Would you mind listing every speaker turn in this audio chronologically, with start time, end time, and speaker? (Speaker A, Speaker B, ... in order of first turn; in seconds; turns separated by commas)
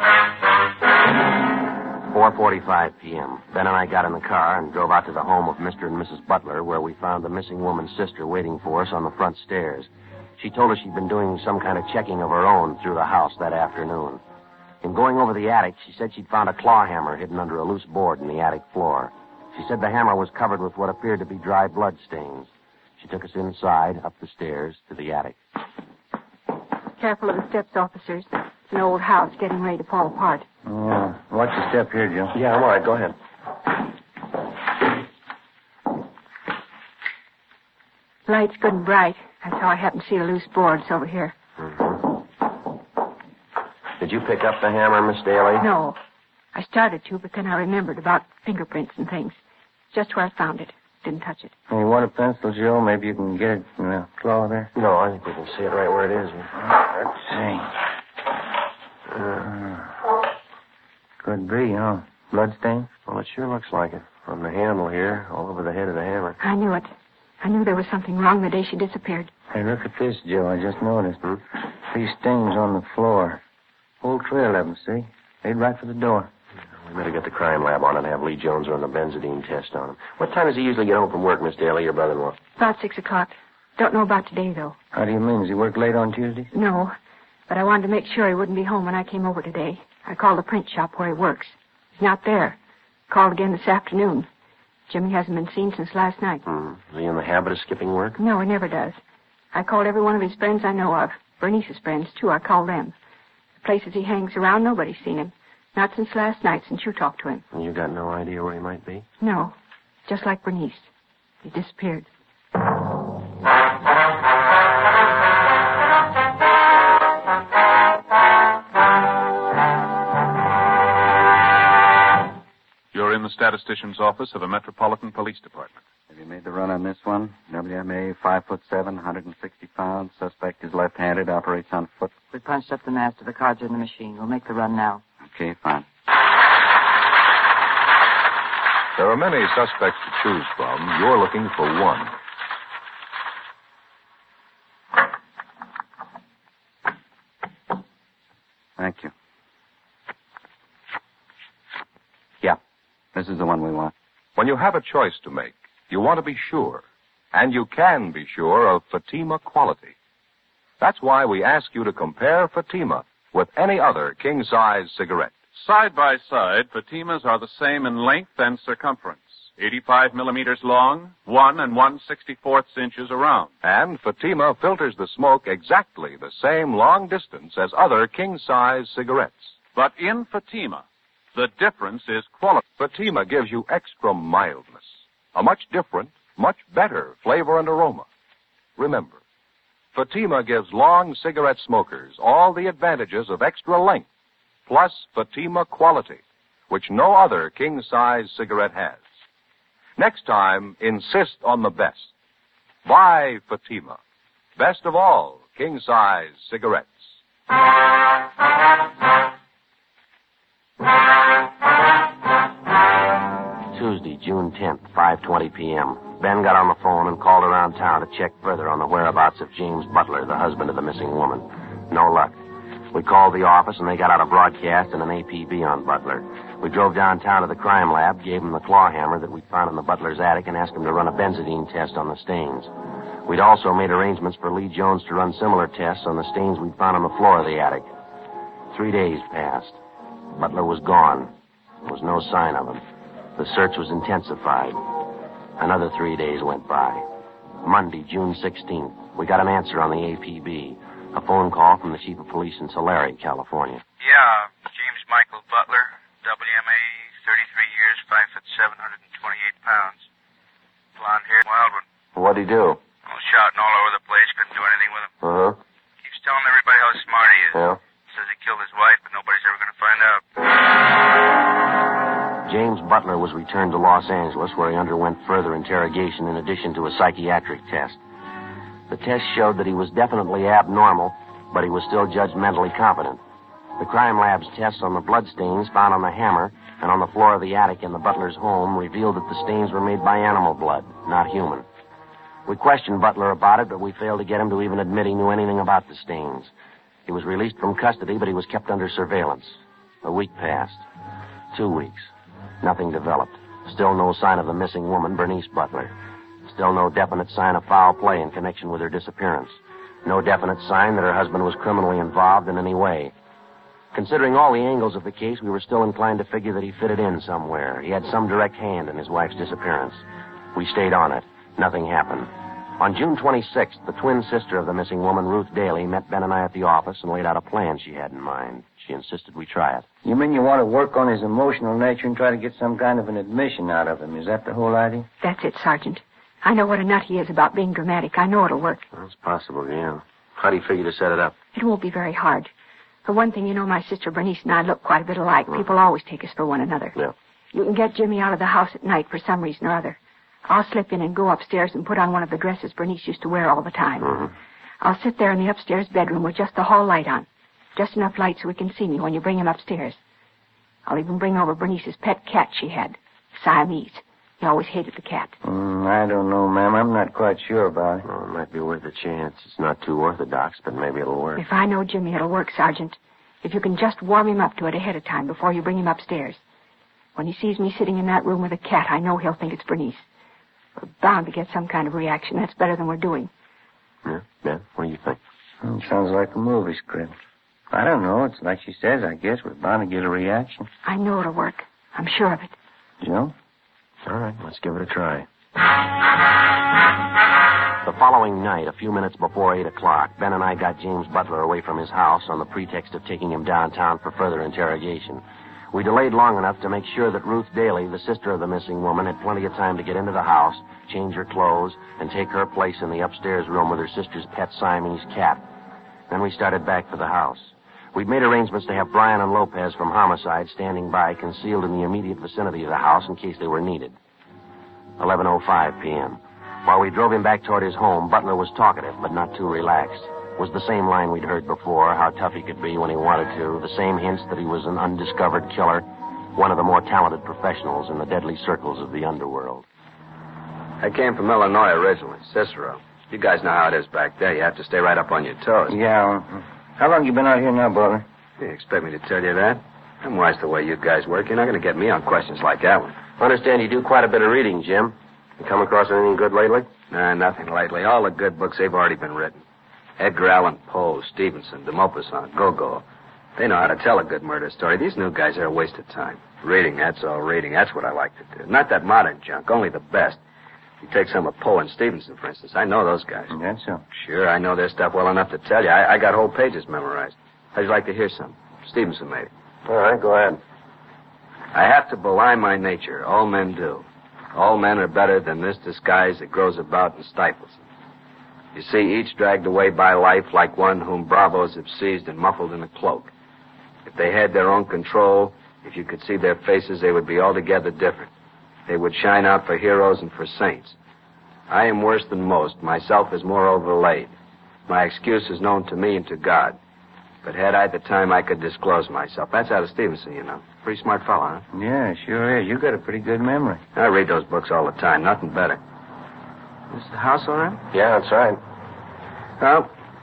Speaker A: 2.1-14.2, Speaker A: 14.8-25.4, Speaker B: 27.0-30.5, Speaker C: 30.6-32.4, Speaker A: 32.3-33.2, Speaker B: 38.3-41.3, Speaker A: 41.6-42.1, Speaker A: 44.0-45.7, Speaker B: 45.6-46.0, Speaker B: 46.5-49.4, Speaker B: 49.9-51.5, Speaker C: 51.7-54.7, Speaker A: 54.8-56.6, Speaker C: 57.1-57.7, Speaker A: 59.2-59.5, Speaker C: 59.4-59.8, Speaker C: 61.2-62.9, Speaker A: 63.1-66.4, Speaker B: 66.4-69.3, Speaker C: 69.5-71.2, Speaker C: 71.9-73.4, Speaker C: 74.0-76.3, Speaker A: 76.8-82.4, Speaker B: 82.6-84.8, Speaker C: 84.9-86.5, Speaker B: 86.5-86.9, Speaker B: 87.5-92.6, Speaker B: 93.1-94.3, Speaker B: 94.9-96.4, Speaker A: 96.5-98.2, Speaker B: 98.2-99.0, Speaker B: 99.5-103.0, Speaker B: 103.6-107.5, Speaker A: 107.5-109.1, Speaker B: 109.2-109.5, Speaker B: 110.1-110.9, Speaker B: 111.4-112.1, Speaker D: 122.9-125.8, Speaker E: 126.1-132.2, Speaker F: 132.3-135.0, Speaker E: 135.3-135.9, Speaker G: 139.0-142.1, Speaker E: 148.8-149.1, Speaker E: 153.1-153.9, Speaker G: 154.4-159.9, Speaker G: 160.8-165.4, Speaker D: 165.6-173.5, Speaker G: 173.6-179.6, Speaker D: 179.7-180.8, Speaker D: 181.3-182.6, Speaker G: 182.8-188.1, Speaker G: 188.8-189.2, Speaker G: 189.9-194.1, Speaker G: 194.7-199.0, Speaker G: 200.0-202.1, Speaker G: 202.8-204.0, Speaker G: 204.6-207.1, Speaker A: 213.7-222.4, Speaker A: 222.9-232.7, Speaker A: 233.2-237.9, Speaker A: 238.7-239.8, Speaker A: 240.4-242.8, Speaker A: 243.4-244.9, Speaker A: 245.6-247.1, Speaker A: 247.6-253.8, Speaker H: 254.0-260.0, Speaker H: 261.0-261.8, Speaker A: 262.1-262.8, Speaker H: 263.1-265.1, Speaker A: 265.2-265.6, Speaker H: 266.0-267.6, Speaker A: 267.5-267.8, Speaker H: 268.1-270.2, Speaker A: 272.4-278.0, Speaker A: 278.9-283.2, Speaker A: 283.8-291.7, Speaker A: 292.5-296.5, Speaker A: 297.1-300.8, Speaker A: 301.5-302.1, Speaker A: 302.6-305.9, Speaker A: 306.5-313.1, Speaker A: 313.9-320.0, Speaker A: 320.6-329.9, Speaker C: 330.0-335.1, Speaker B: 335.2-338.8, Speaker A: 338.9-341.4, Speaker B: 341.5-342.5, Speaker B: 343.1-347.0, Speaker B: 347.5-354.1, Speaker A: 354.0-354.3, Speaker B: 354.8-360.0, Speaker B: 360.9-365.4, Speaker C: 365.4-368.1, Speaker A: 368.0-371.4, Speaker B: 371.4-376.4, Speaker B: 377.2-380.0, Speaker B: 380.8-383.3, Speaker A: 384.1-385.2, Speaker C: 385.6-387.1, Speaker C: 387.7-390.7, Speaker B: 390.9-392.5, Speaker C: 393.0-393.3, Speaker A: 394.1-395.3, Speaker A: 397.8-415.4, Speaker A: 416.1-423.9, Speaker A: 425.0-439.6, Speaker I: 440.8-445.8, Speaker C: 445.7-448.1, Speaker I: 448.4-452.9, Speaker A: 453.2-456.7, Speaker I: 456.9-459.4, Speaker I: 460.0-462.8, Speaker I: 463.4-470.2, Speaker I: 470.8-473.3, Speaker C: 473.3-473.8, Speaker I: 473.9-479.3, Speaker A: 479.7-480.4, Speaker I: 481.5-487.6, Speaker I: 488.5-493.1, Speaker I: 493.9-498.1, Speaker I: 498.7-500.8, Speaker I: 501.5-504.1, Speaker I: 504.7-506.6, Speaker I: 507.2-511.4, Speaker C: 511.5-513.6, Speaker I: 513.8-515.6, Speaker I: 516.7-517.6, Speaker A: 517.7-518.4, Speaker I: 519.4-519.7